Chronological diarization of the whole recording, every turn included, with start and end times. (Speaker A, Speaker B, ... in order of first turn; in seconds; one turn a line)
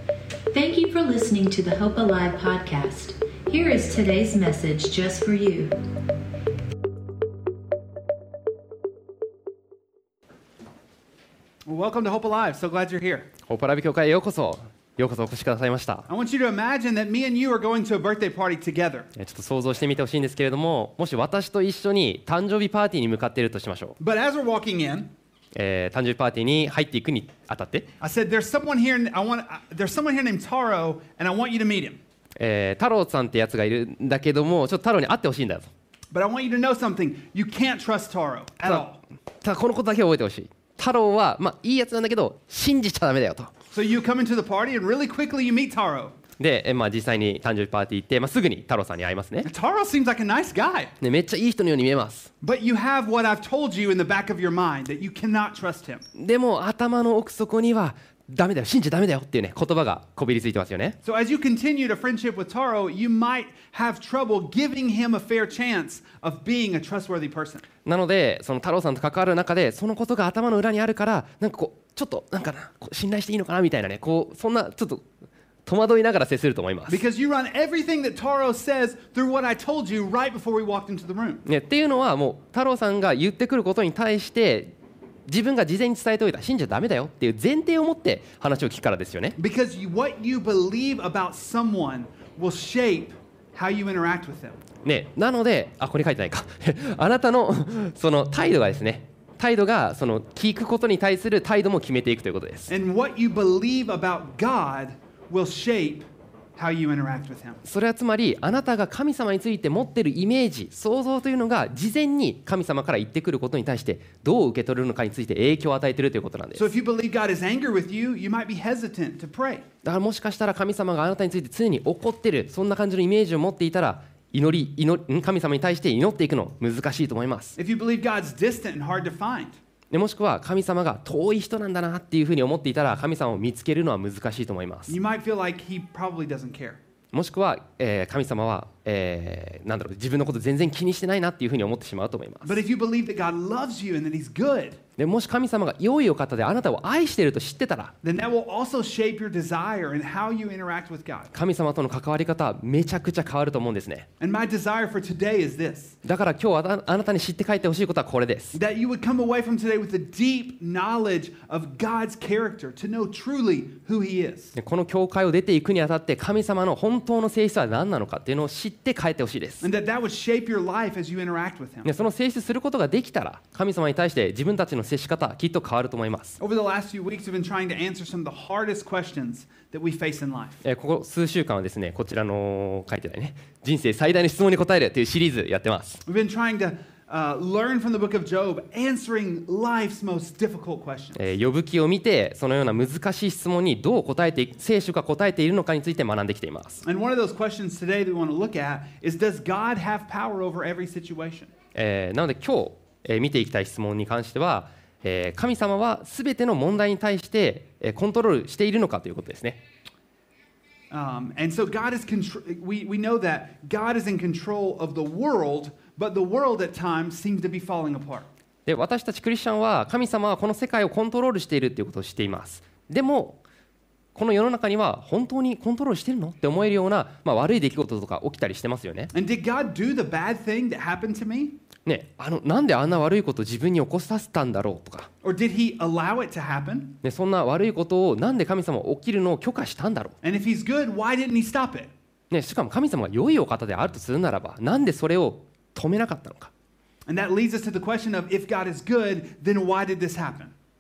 Speaker A: 0.5-5.8
Speaker B: 11.7-13.3
Speaker C: 13.4-16.1
Speaker B: 16.1-19.1
Speaker C: 19.1-24.0
Speaker B: 24.0-25.1
Speaker C: 25.5-27.9
Speaker B: 28.0-32.0
Speaker C: 32.4-35.7
Speaker B: 36.1-39.0
Speaker C: 39.4-43.5
Speaker B: 43.7-46.2
Speaker C: 46.4-49.5
Speaker B: 49.4-50.9
Speaker C: 51.0-52.3
Speaker B: 52.4-56.1
Speaker C: 56.1-61.0
Speaker B: 61.0-67.7
Speaker C: 67.8-75.1
Speaker C: 75.7-77.0
Speaker B: 76.9-81.4
Speaker C: 81.5-84.7
Speaker C: 85.3-89.4
Speaker B: 89.4-94.6
Speaker C: 94.8-102.7
Speaker B: 102.7-107.6
Speaker C: 107.6-116.7
Speaker B: 116.5-119.7
Speaker C: 119.8-127.6
Speaker B: 127.6-129.6
Speaker C: 129.9-135.0
Speaker B: 134.9-136.8
Speaker C: 137.1-142.6
Speaker B: 142.4-144.8
Speaker C: 145.0-147.9
Speaker B: 148.0-151.3
Speaker C: 151.3-154.1
Speaker B: 154.2-156.0
Speaker C: 156.0-158.6
Speaker B: 158.5-164.6
Speaker C: 164.6-169.7
Speaker B: 169.6-171.9
Speaker C: 171.8-176.4
Speaker B: 176.4-180.6
Speaker C: 180.6-186.0
Speaker B: 186.1-191.2
Speaker C: 191.2-196.8
Speaker B: 196.8-201.5
Speaker C: 201.8-209.6
Speaker B: 210.9-218.3
Speaker C: 218.7-223.4
Speaker C: 224.2-229.1
Speaker B: 229.1-231.6
Speaker C: 231.9-235.1
Speaker B: 235.2-237.0
Speaker C: 237.0-240.2
Speaker B: 240.2-241.9
Speaker C: 242.3-246.5
Speaker B: 247.1-250.5